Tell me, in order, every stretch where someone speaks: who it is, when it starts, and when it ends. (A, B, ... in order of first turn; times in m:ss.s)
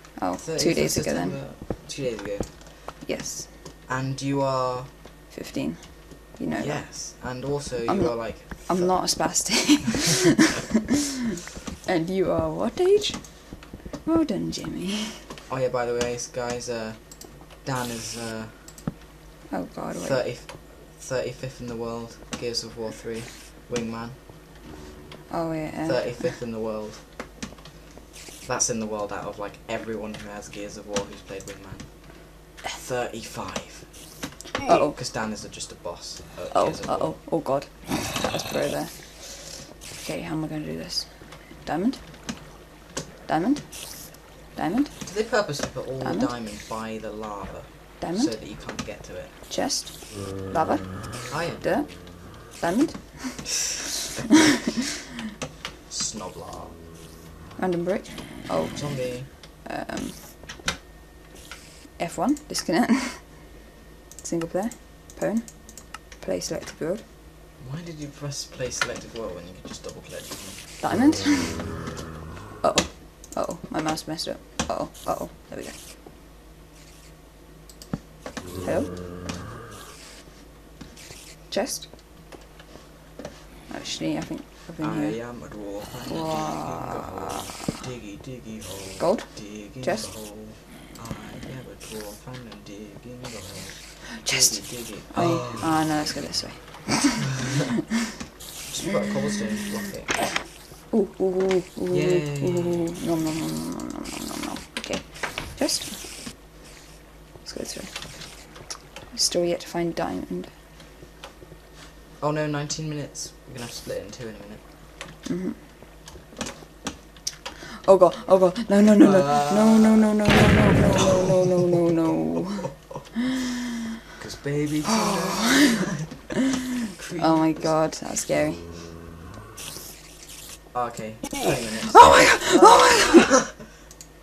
0:00.2-0:01.4 A
0:00.4-0:02.6 B
0:03.0-0:03.5 A
0:03.8-0:04.9 B
0:05.3-0:07.2 A
0:06.6-0:09.8 B
0:07.8-0:10.2 A
0:11.8-0:15.2 A
0:15.5-0:18.8 B
0:19.5-0:20.2 A
0:19.9-0:24.2 B
0:25.3-0:26.3 A
0:25.8-0:27.1 B
0:28.4-0:34.0 B
0:34.6-0:35.0 A
0:34.9-0:37.2 B
0:36.5-0:42.2 A
0:43.2-0:45.1 A
0:45.0-0:49.4 B
0:46.0-0:46.3 A
0:48.0-0:48.3 A
0:49.5-0:53.7 A
0:51.3-0:51.8 B
0:55.9-0:56.8 B
0:57.6-1:00.3 A
0:58.7-0:59.3 B
1:02.0-1:03.6 A
1:04.2-1:07.0 A
1:07.6-1:10.8 B
1:10.8-1:11.8 A
1:12.6-1:15.8 A
1:18.6-1:19.0 A
1:21.5-1:21.9 A
1:23.7-1:27.4 A
1:24.8-1:36.2 B
1:29.0-1:30.1 A
1:34.2-1:37.3 A
1:38.7-1:40.5 B
1:40.7-1:46.4 A
1:41.9-1:43.0 B
1:47.4-1:50.5 A
1:52.2-1:54.6 B
1:55.2-1:55.6 A
1:57.8-2:02.9 A
1:59.0-2:00.2 B
2:01.0-2:03.0 B
2:04.2-2:06.0 B
2:05.0-2:05.8 A
2:06.9-2:07.8 B
2:07.2-2:08.7 A
2:10.7-2:13.4 B
2:12.0-2:13.2 A